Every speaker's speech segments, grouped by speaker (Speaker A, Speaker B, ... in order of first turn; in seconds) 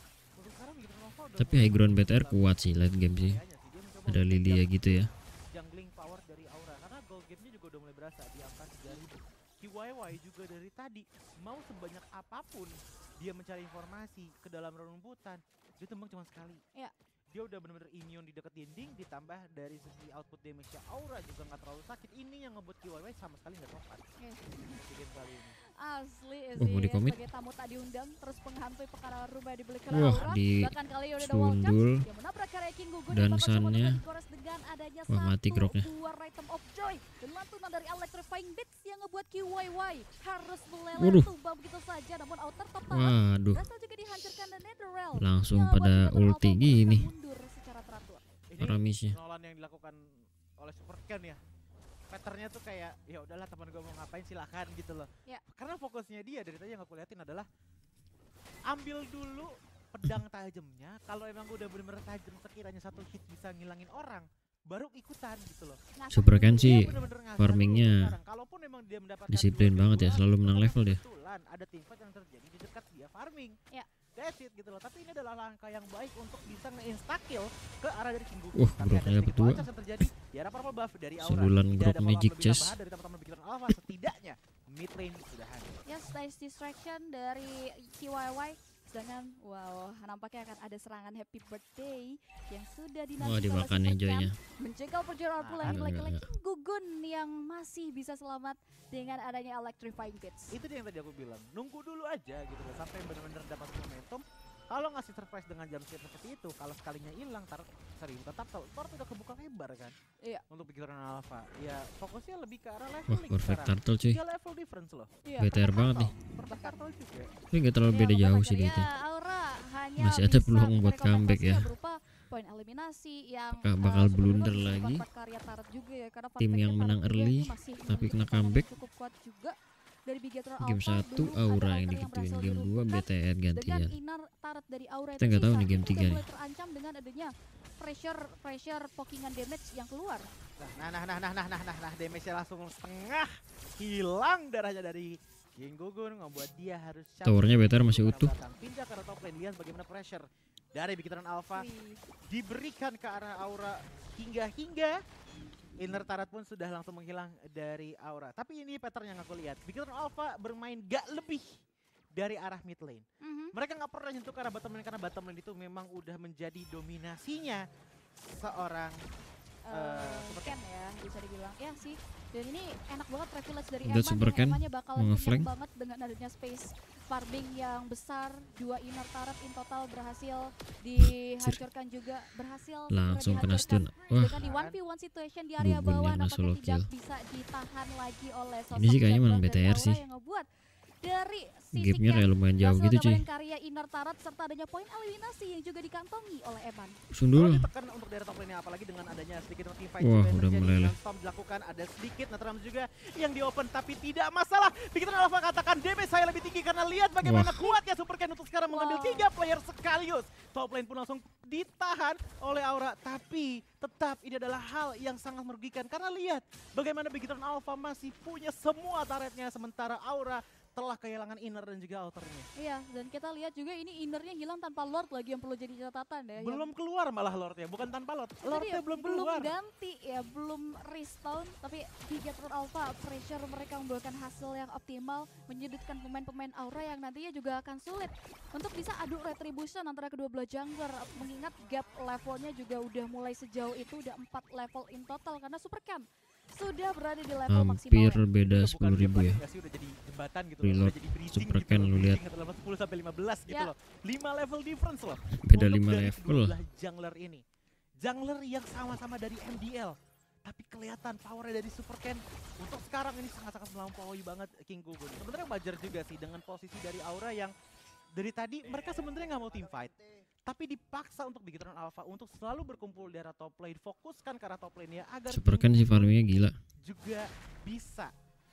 Speaker A: 0.4-16.6, 17.3-24.0, 24.6-25.6, 48.5-50.0, 50.6-51.4, 52.1-57.5, 58.7-65.8, 66.3-73.6, 74.2-85.9, 95.4-95.9, 100.5-110.0, 110.5-117.4, 140.6-151.7, 152.3-155.0, 155.8-161.5, 162.2-167.6, 168.2-169.0, 169.7-170.6, 184.3-184.8, 197.3-222.5, 226.4-229.6, 248.4-257.4, 258.0-267.5, 268.2-276.1, 276.8-278.1
Speaker B: 1.4-3.4, 4.1-5.1, 26.6-27.2, 29.9-32.0, 33.1-34.0, 35.1-35.9, 41.0-41.3, 42.9-43.6, 45.2-47.1, 48.6-49.2, 66.1-68.2, 69.3-71.0, 78.5-79.7, 81.2-82.8, 93.2-94.3, 95.6-96.3, 113.1-114.2, 115.4-116.1, 117.5-118.9, 120.0-121.7, 123.6-125.0, 126.4-128.7, 130.6-133.9, 135.2-136.3, 147.2-148.3, 173.8-175.5, 181.0-181.6, 182.9-184.4, 185.6-186.9, 188.7-190.0, 191.7-193.2, 197.1-197.7, 200.0-200.9, 207.2-207.7, 247.5-249.4, 250.6-252.2, 255.5-256.6, 275.3-276.6
Speaker C: 24.2-24.8, 25.6-48.2, 66.0-67.0, 85.9-100.5, 115.2-116.8, 117.9-140.3, 151.5-152.0, 163.2-163.6, 169.7-190.5, 191.0-196.9, 208.7-209.3, 222.6-226.7, 228.4-248.2